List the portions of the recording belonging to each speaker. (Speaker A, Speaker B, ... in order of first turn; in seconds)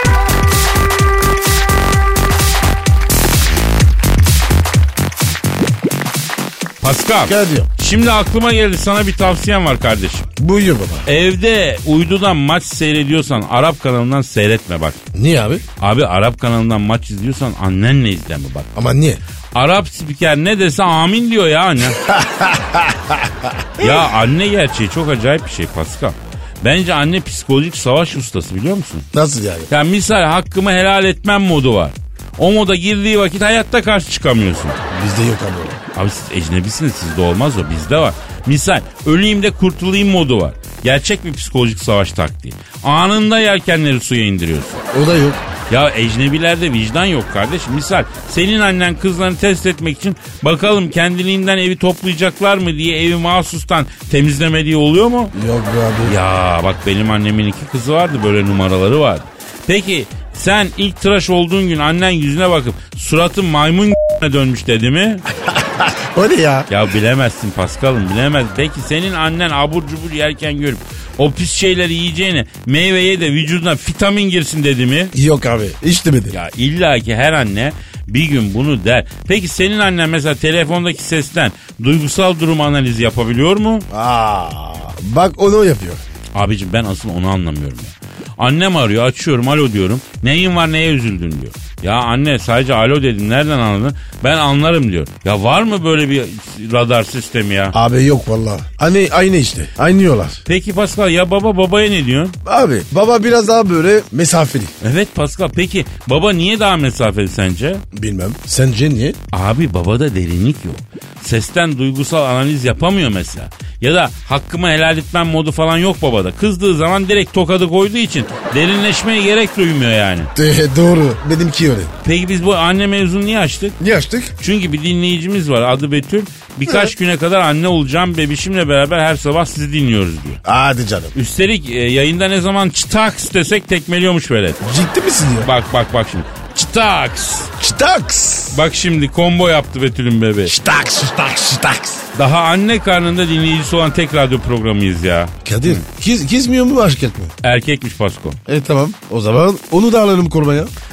Speaker A: 6.8-10.3, 11.1-15.0, 15.8-18.7, 19.5-22.0, 23.8-29.1, 29.7-34.8, 35.9-44.8, 45.7-55.3, 56.0-65.2, 66.7-75.1, 76.3-83.9, 86.3-97.8, 100.5-102.4, 104.8-107.8, 109.3-120.3, 122.0-123.8, 124.4-130.4, 131.2-134.6, 135.4-137.5, 138.5-140.5, 142.2-145.8, 147.4-148.4
Speaker B: 7.3-7.7, 10.4-11.1, 15.1-15.6, 18.8-19.2, 22.0-24.1, 29.1-29.7, 34.9-35.8, 44.9-45.4, 55.3-56.1, 65.5-66.7, 75.1-76.4, 83.9-86.0, 97.7-100.4, 102.5-104.7, 107.9-109.2, 120.3-121.9, 123.8-124.3, 130.4-131.1, 134.6-135.5, 137.6-138.6, 140.4-142.1, 145.4-147.3, 148.5-150.7